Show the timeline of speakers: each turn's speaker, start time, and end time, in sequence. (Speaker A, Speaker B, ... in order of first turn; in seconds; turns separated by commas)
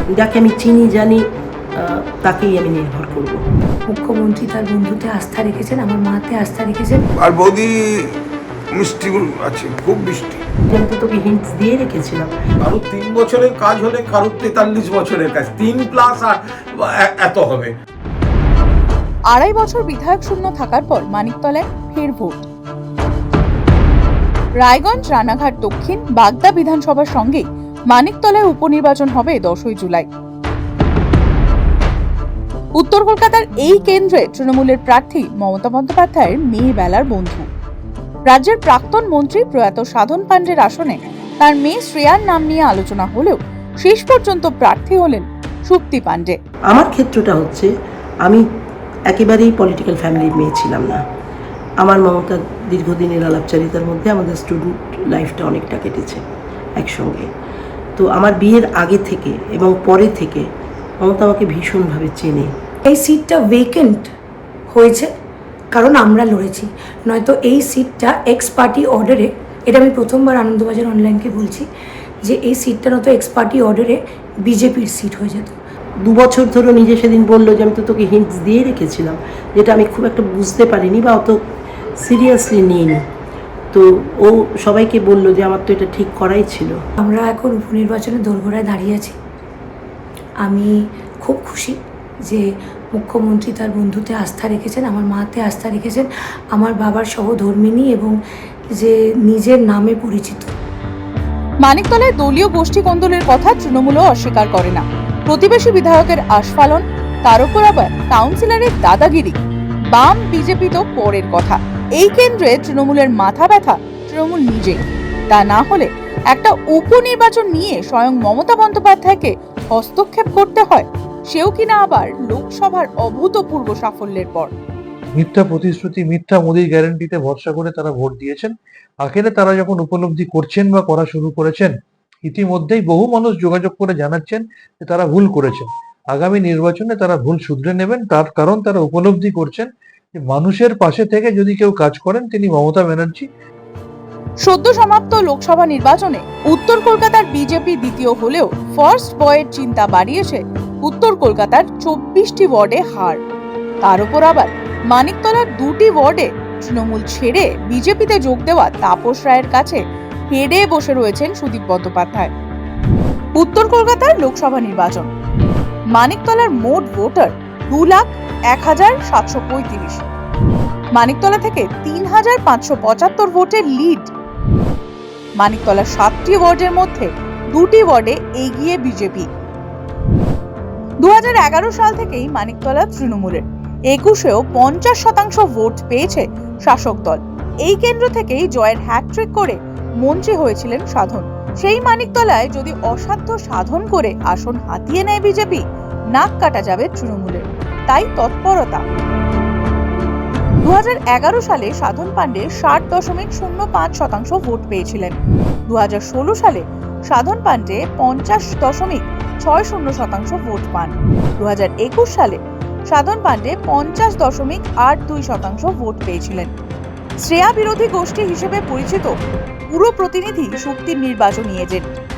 Speaker A: 0.1-1.2, Speaker A: 1.8-3.4, Speaker B: 3.9-7.0, Speaker C: 7.2-8.1, Speaker C: 8.7-10.4, Speaker A: 10.7-12.3, Speaker D: 12.6-17.7, Speaker E: 19.3-22.4, Speaker E: 24.6-30.1, Speaker E: 32.8-37.5, Speaker E: 38.3-46.3, Speaker A: 46.7-47.7, Speaker A: 49.1-51.0, Speaker A: 51.8-57.3, Speaker A: 58.0-60.5, Speaker A: 61.0-62.5, Speaker B: 62.9-64.1, Speaker B: 64.7-65.1, Speaker B: 65.7-71.7, Speaker B: 72.3-75.6, Speaker A: 76.0-81.4, Speaker A: 82.0-83.0, Speaker A: 83.7-86.8, Speaker B: 87.0-89.2, Speaker B: 90.4-91.8, Speaker B: 93.0-98.2, Speaker B: 98.8-100.5, Speaker E: 101.6-109.4, Speaker E: 109.9-124.5, Speaker F: 125.2-143.3, Speaker E: 144.4-153.2, Speaker E: 153.8-159.8, Speaker E: 160.3-162.3, Speaker E: 163.4-165.1, Speaker E: 165.9-170.0, Speaker E: 171.0-174.1, Speaker E: 175.4-179.3, Speaker E: 181.0-195.6, Speaker E: 196.1-198.8, Speaker E: 200.6-205.1, Speaker E: 205.7-212.4, Speaker E: 212.9-216.5, Speaker E: 217.2-219.1, Speaker E: 219.7-221.9